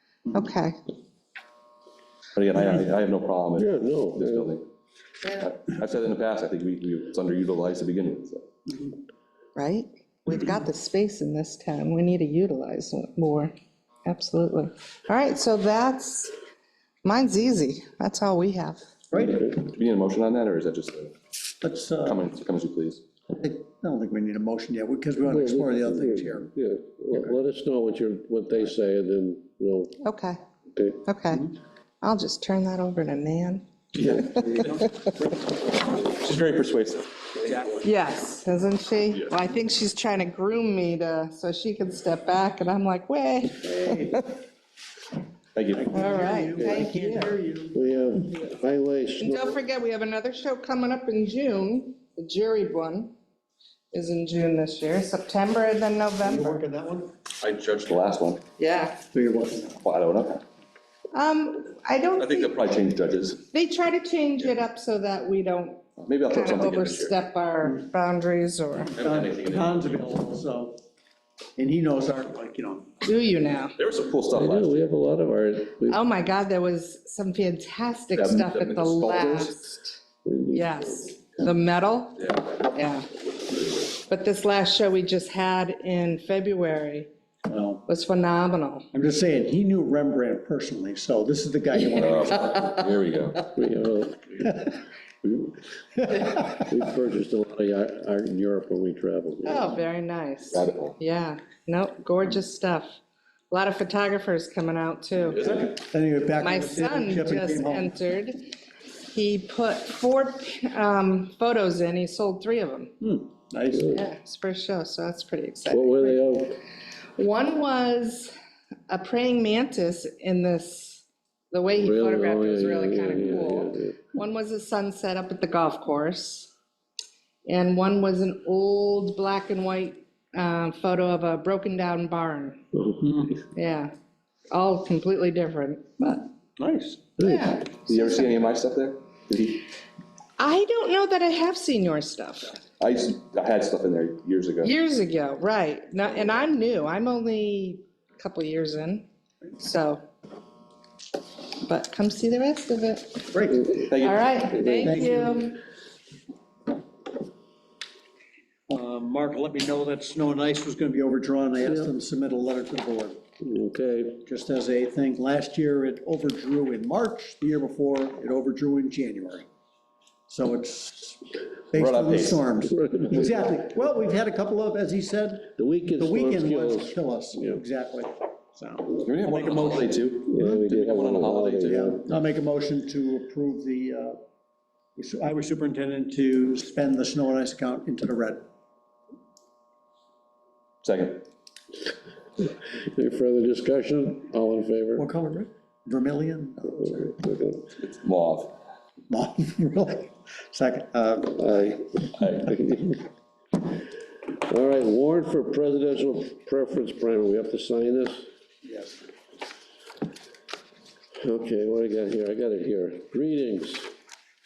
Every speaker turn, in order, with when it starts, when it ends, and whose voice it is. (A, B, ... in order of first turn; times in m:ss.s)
0:00.3-0:00.8 A
0:02.4-0:04.6 B
0:03.6-0:04.6 C
0:05.3-0:08.5 B
0:09.6-0:13.5 A
0:14.0-0:16.3 A
0:17.0-0:18.8 A
0:19.1-0:19.5 D
0:19.2-0:21.1 B
0:21.6-0:22.2 D
0:22.0-0:23.0 B
0:23.3-0:26.5 D
0:25.2-0:30.0 C
0:30.0-0:30.4 A
0:30.7-0:31.0 C
0:31.0-0:33.6 A
0:34.1-0:34.9 D
0:34.2-0:34.7 A
0:34.4-0:37.8 B
0:37.8-0:44.3 A
0:43.6-0:44.3 D
0:45.6-0:45.9 B
0:45.7-0:47.8 D
0:45.9-0:47.3 A
0:46.6-0:46.9 C
0:47.7-0:49.6 C
0:49.2-0:53.1 A
0:53.9-0:56.6 A
0:56.2-0:57.1 D
0:57.4-0:58.4 B
0:58.6-0:59.0 A
0:59.1-0:59.8 D
0:59.8-1:00.4 B
1:01.1-1:02.6 A
1:02.2-1:03.4 B
1:03.5-1:09.0 A
1:06.0-1:07.2 B
1:09.0-1:10.8 D
1:09.0-1:10.0 B
1:11.6-1:12.9 D
1:13.0-1:13.8 A
1:13.8-1:14.9 B
1:14.3-1:16.0 C
1:15.9-1:20.0 A
1:18.1-1:19.5 B
1:20.2-1:21.1 C
1:20.5-1:23.1 A
1:22.2-1:22.6 B
1:23.9-1:27.1 A
1:27.5-1:27.8 D
1:27.9-1:28.9 A
1:28.9-1:32.9 D
1:31.8-1:33.5 B
1:33.6-1:34.6 C
1:34.4-1:34.8 D
1:35.2-1:35.5 C
1:36.0-1:36.6 D
1:36.6-1:39.7 C
1:39.4-1:43.0 A
1:40.5-1:41.0 B
1:43.5-1:45.5 A
1:45.4-1:45.6 B
1:45.4-1:47.9 D
1:46.4-1:48.5 A
1:49.1-1:52.9 A
1:53.0-1:54.0 D
1:53.7-1:54.0 C
1:53.9-1:56.2 A
1:55.7-1:56.6 C
1:57.2-1:58.3 A
1:58.9-2:06.5 A
2:01.8-2:04.0 C
2:07.4-2:12.6 A
2:12.7-2:13.1 C
2:13.0-2:13.4 D
2:13.5-2:13.9 A
2:14.5-2:16.3 A
2:16.6-2:17.1 D
2:17.2-2:17.6 C
2:17.2-2:18.0 A
2:17.9-2:19.6 B
2:20.4-2:22.6 A
2:22.8-2:24.7 B
2:24.6-2:29.1 A
2:29.6-2:30.0 A
2:31.6-2:35.6 A
2:33.3-2:33.7 D
2:33.9-2:34.4 B
2:34.5-2:35.3 C
2:34.8-2:35.4 D
2:38.7-2:43.2 D
2:41.6-2:41.9 C
2:43.4-2:44.2 C
2:44.2-2:49.5 D
2:50.3-3:00.6 D
2:51.7-2:52.5 B
2:52.6-2:53.4 C
2:55.6-2:57.6 C
2:59.0-3:02.0 B
3:00.3-3:02.1 C
3:01.7-3:04.2 D
3:05.0-3:08.5 D
3:10.8-3:11.2 B
3:12.4-3:15.1 C
3:15.0-3:17.1 D
3:16.7-3:17.7 C
3:17.8-3:18.5 B
3:19.1-3:21.6 D
3:21.4-3:23.1 C
3:22.2-3:22.6 B
3:24.5-3:28.3 C
3:28.6-3:29.0 D
3:31.2-3:33.9 C